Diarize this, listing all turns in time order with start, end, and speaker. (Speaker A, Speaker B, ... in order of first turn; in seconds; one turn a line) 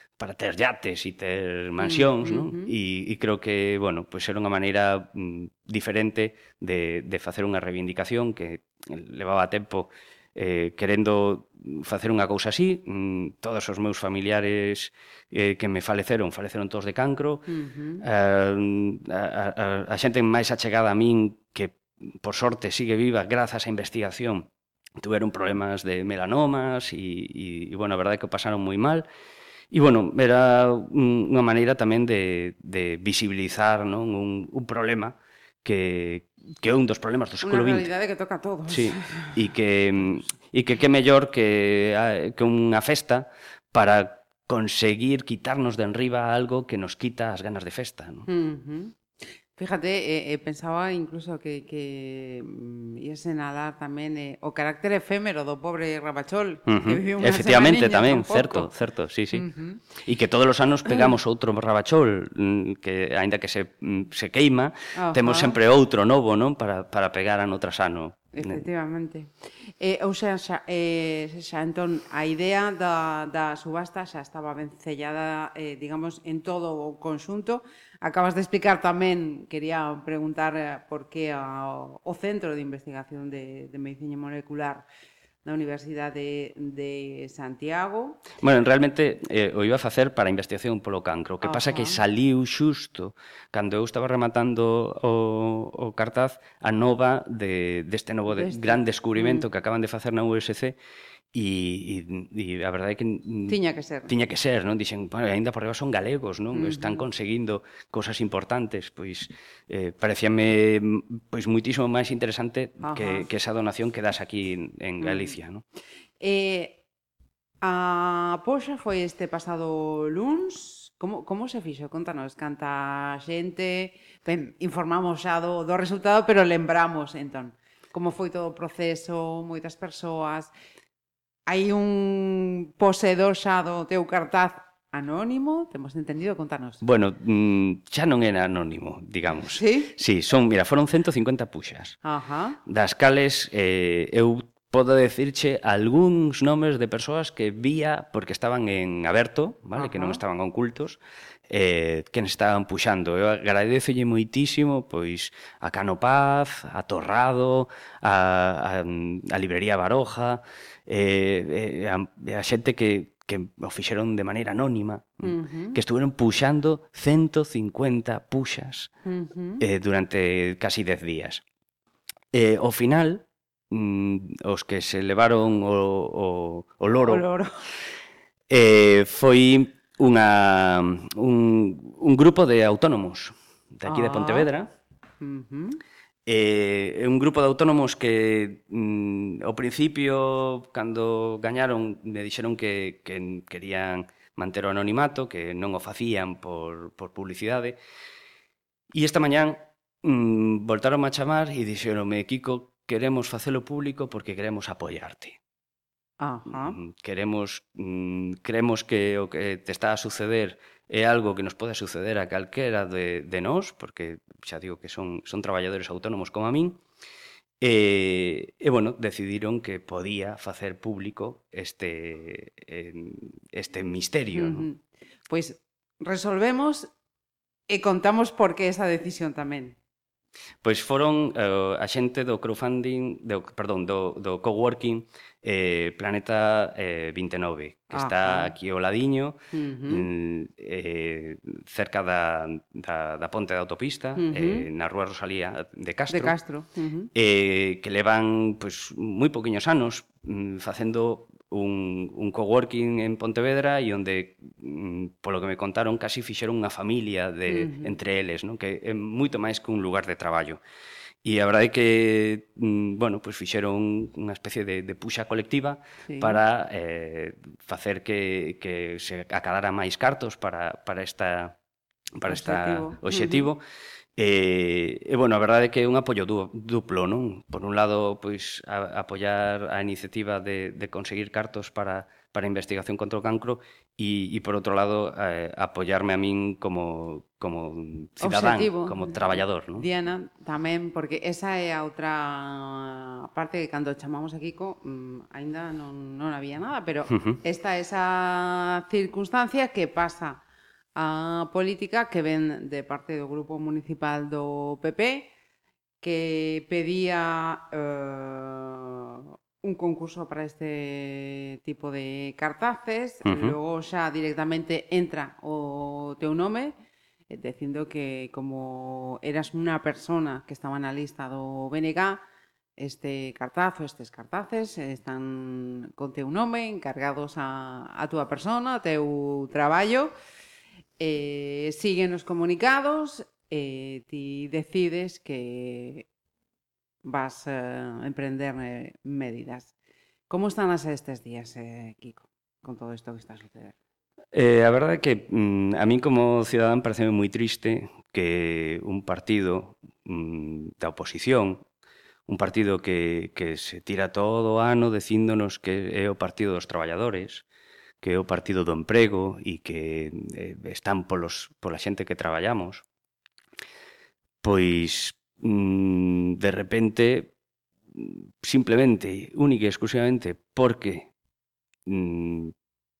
Speaker A: 0.2-17.5
Speaker B: 1.8-2.7
Speaker B: 17.5-18.0
Speaker A: 18.0-29.1
Speaker A: 29.7-37.9
Speaker B: 37.4-39.4
Speaker A: 38.7-48.3
Speaker B: 48.3-49.0
Speaker B: 49.5-58.7
Speaker A: 56.7-68.6
Speaker B: 59.3-59.8
Speaker B: 64.9-65.6
Speaker B: 68.3-84.8
Speaker B: 85.4-88.3
Speaker A: 88.4-100.8
Speaker B: 91.4-92.0
Speaker B: 98.3-99.4
Speaker A: 101.3-115.6
Speaker B: 103.5-104.1
Speaker B: 106.5-107.0
Speaker B: 112.8-113.2
Speaker B: 115.0-115.3
Speaker B: 116.2-116.8
Speaker B: 117.6-130.5
Speaker B: 131.5-136.8
Speaker A: 136.8-142.0
Speaker B: 139.5-139.9
Speaker B: 142.0-142.6
Speaker A: 142.7-168.9
Speaker B: 149.7-150.2
Speaker B: 165.2-165.8
Speaker B: 169.1-169.6
Speaker A: 169.6-171.4
Speaker A: 172.3-177.2
Speaker B: 177.0-177.6
Speaker A: 178.5-184.7
Speaker B: 183.8-184.5
Speaker B: 185.2-185.8
Speaker A: 186.2-197.8
Speaker A: 198.9-205.4
Speaker B: 206.2-206.8
Speaker A: 206.5-216.8
Speaker A: 217.6-224.7
Speaker B: 224.3-226.9
Speaker B: 227.7-229.8
Speaker A: 230.6-246.3
Speaker B: 237.9-238.5
Speaker B: 239.5-240.1
Speaker B: 244.2-244.7
Speaker B: 246.1-247.1
Speaker A: 247.1-260.6
Speaker B: 257.5-257.9
Speaker A: 261.2-271.6
Speaker B: 266.1-266.4
Speaker A: 272.2-273.6
Speaker B: 272.3-273.5
Speaker A: 274.2-289.9
Speaker B: 288.2-300.4
Speaker A: 297.1-297.4
Speaker B: 300.9-305.3
Speaker B: 306.0-316.7
Speaker A: 313.2-313.5
Speaker B: 317.3-322.2
Speaker B: 322.8-330.1
Speaker B: 331.0-336.1
Speaker B: 337.0-339.7
Speaker B: 340.3-343.7
Speaker A: 344.3-351.6
Speaker A: 352.3-357.4
Speaker A: 358.0-362.8
Speaker A: 364.4-367.3
Speaker A: 367.9-371.1
Speaker A: 371.9-372.5